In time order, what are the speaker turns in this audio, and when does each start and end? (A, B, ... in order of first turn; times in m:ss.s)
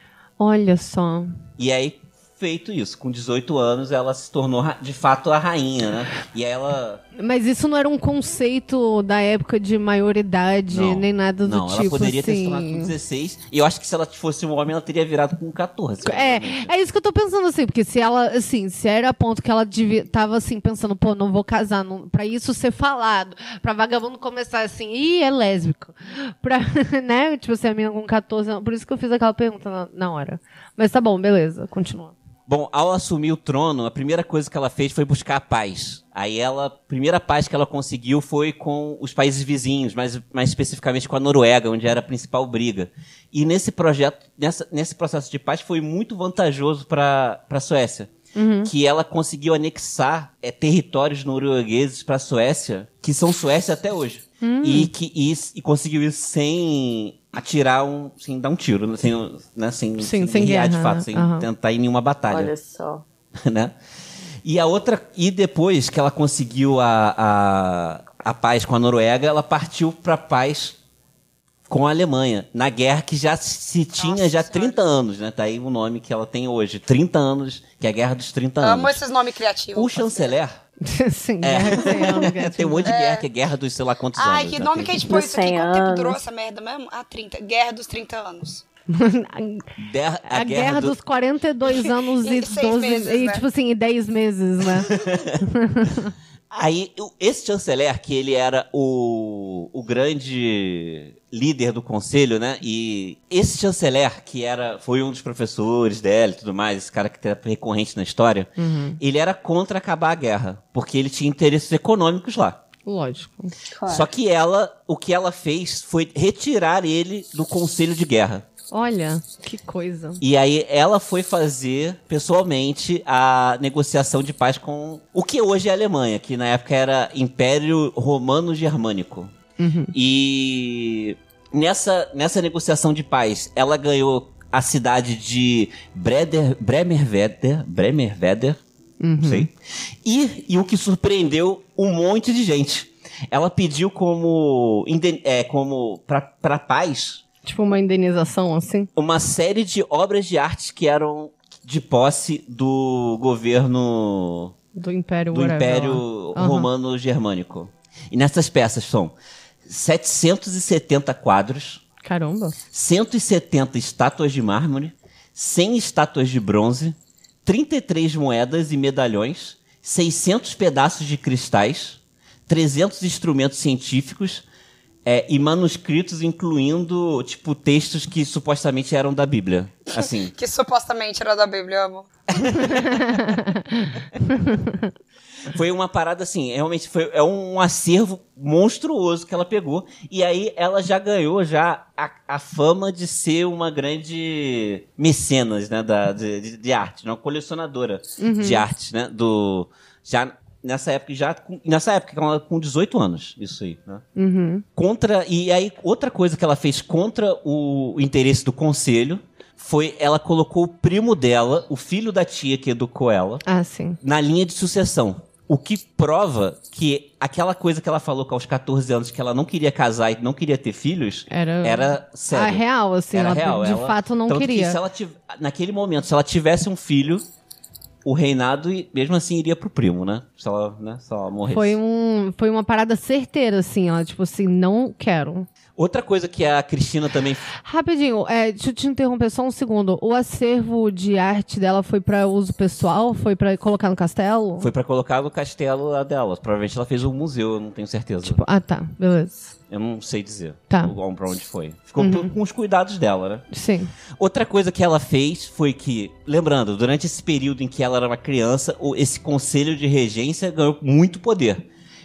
0:00.4-0:01.3 A
0:01.6-0:07.0 B
0:07.2-0:12.9 A
0:10.7-0:16.7 B
0:16.0-0:32.1 A
0:32.5-0:48.1 B
0:48.3-0:48.7 A
0:48.6-1:02.5 B
0:54.4-0:54.9 A
1:00.0-1:01.5 A
1:02.3-1:03.0 C
1:03.4-1:03.7 B
1:04.4-1:10.8 B
1:11.7-1:19.0 B
1:14.0-1:14.8 D
1:18.6-1:20.3 D
1:19.7-1:20.6 B
1:20.8-1:22.9 A
1:21.4-1:25.0 B
1:22.8-1:23.2 D
1:24.1-1:28.6 D
1:25.1-1:26.2 C
1:28.9-1:29.7 A
1:29.8-1:30.9 B
1:30.3-1:34.9 A
1:32.2-1:33.4 D
1:34.8-1:35.4 B
1:35.4-1:36.1 A
1:36.5-1:52.6 B
1:48.6-1:49.0 A
1:52.8-1:53.5 A
1:53.7-1:54.1 C
1:53.9-1:58.4 B
1:58.7-2:00.2 A
2:00.2-2:09.3 B
2:09.6-2:09.9 A
2:09.9-2:18.6 B
2:19.0-2:19.5 A
2:19.2-2:27.2 B
2:27.4-2:28.9 A
2:28.9-2:34.5 B
2:34.7-2:36.7 A
2:35.3-2:39.1 B
2:39.6-2:41.8 B
2:42.0-2:42.6 A
2:42.7-2:54.4 B
2:55.0-3:00.3 B
3:00.4-3:02.1 D
3:02.3-3:03.2 B
3:02.7-3:04.9 A
3:05.5-3:24.0 B
3:18.2-3:18.6 A
3:24.2-3:24.6 A
3:24.8-3:33.4 B
3:33.4-3:34.0 A
3:34.0-3:47.2 B
3:41.3-3:44.8 A
3:48.0-3:51.8 B
3:51.5-3:55.5 A
3:55.8-3:57.5 B
3:57.6-4:04.7 A
4:04.6-4:08.4 B
4:08.2-4:09.5 A
4:09.7-4:13.4 B
4:12.0-4:12.3 A
4:13.5-4:13.9 A
4:14.2-4:21.6 B